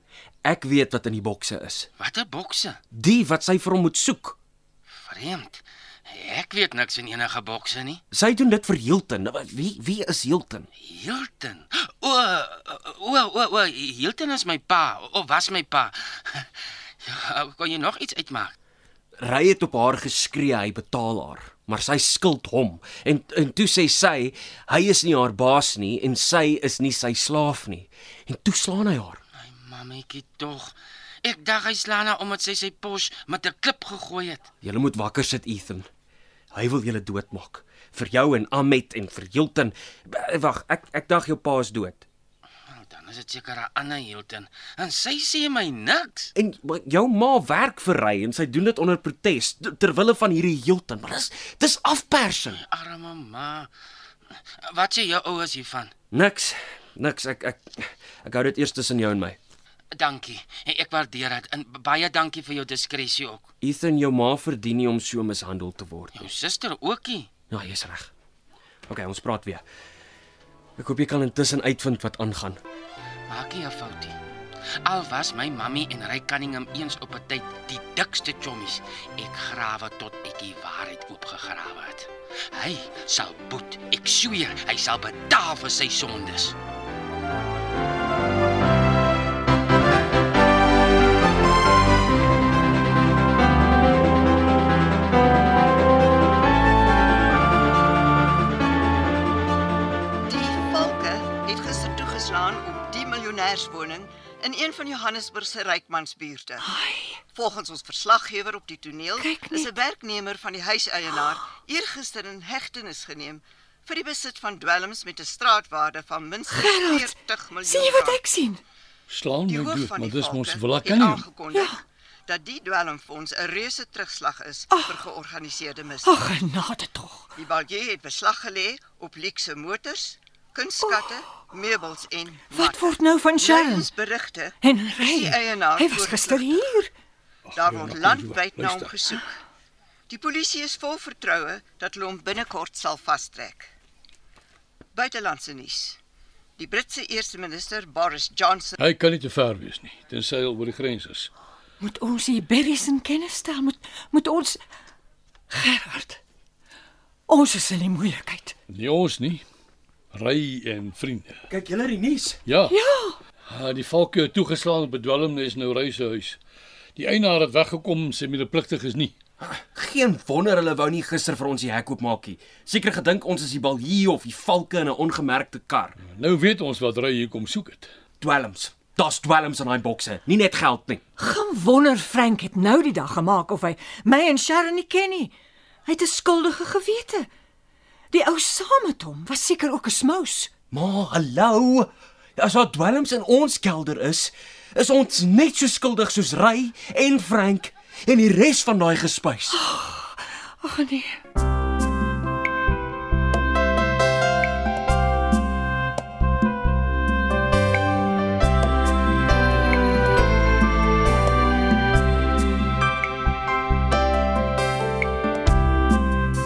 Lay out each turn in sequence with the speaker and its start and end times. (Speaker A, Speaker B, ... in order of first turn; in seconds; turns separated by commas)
Speaker A: 0.4-1.9, Speaker B: 2.0-2.8, Speaker A: 2.9-4.4, Speaker B: 5.1-8.0, Speaker A: 8.1-10.7, Speaker B: 10.8-16.5, Speaker B: 17.0-18.5, Speaker A: 19.2-29.2, Speaker B: 29.4-34.5, Speaker A: 34.6-35.9, Speaker A: 36.5-42.0, Speaker B: 42.7-46.3, Speaker A: 46.3-52.6, Speaker B: 52.5-53.7, Speaker B: 54.6-55.9, Speaker A: 56.1-59.4, Speaker B: 59.9-63.5, Speaker A: 63.6-66.2, Speaker B: 66.2-67.3, Speaker A: 67.5-68.1, Speaker A: 68.9-69.6, Speaker A: 70.8-72.6, Speaker B: 73.3-74.2, Speaker B: 74.8-86.6, Speaker C: 100.2-106.6, Speaker D: 106.6-107.2, Speaker C: 107.3-118.2, Speaker D: 109.2-109.7, Speaker D: 111.1-111.4, Speaker D: 116.5-118.6, Speaker E: 119.1-121.3, Speaker C: 119.4-126.2, Speaker D: 121.5-121.8, Speaker D: 124.7-125.1, Speaker D: 126.0-127.3, Speaker C: 127.3-136.6, Speaker D: 130.8-131.3, Speaker D: 132.5-133.9, Speaker D: 134.6-136.9, Speaker E: 137.5-139.0, Speaker C: 137.5-139.3, Speaker C: 140.1-143.7, Speaker C: 144.9-146.0, Speaker C: 146.6-148.7, Speaker E: 148.8-151.3, Speaker D: 151.8-154.6, Speaker D: 155.5-156.2, Speaker D: 157.3-158.5, Speaker E: 158.7-159.4, Speaker E: 160.1-161.4, Speaker A: 161.5-162.4, Speaker E: 162.4-162.8, Speaker D: 162.7-163.2, Speaker E: 163.5-166.4, Speaker E: 166.9-169.1, Speaker A: 169.4-176.0, Speaker E: 176.1-177.9, Speaker A: 178.2-181.0, Speaker D: 181.2-185.3, Speaker D: 185.8-187.3, Speaker D: 188.1-190.5, Speaker A: 190.7-199.6, Speaker D: 199.5-201.2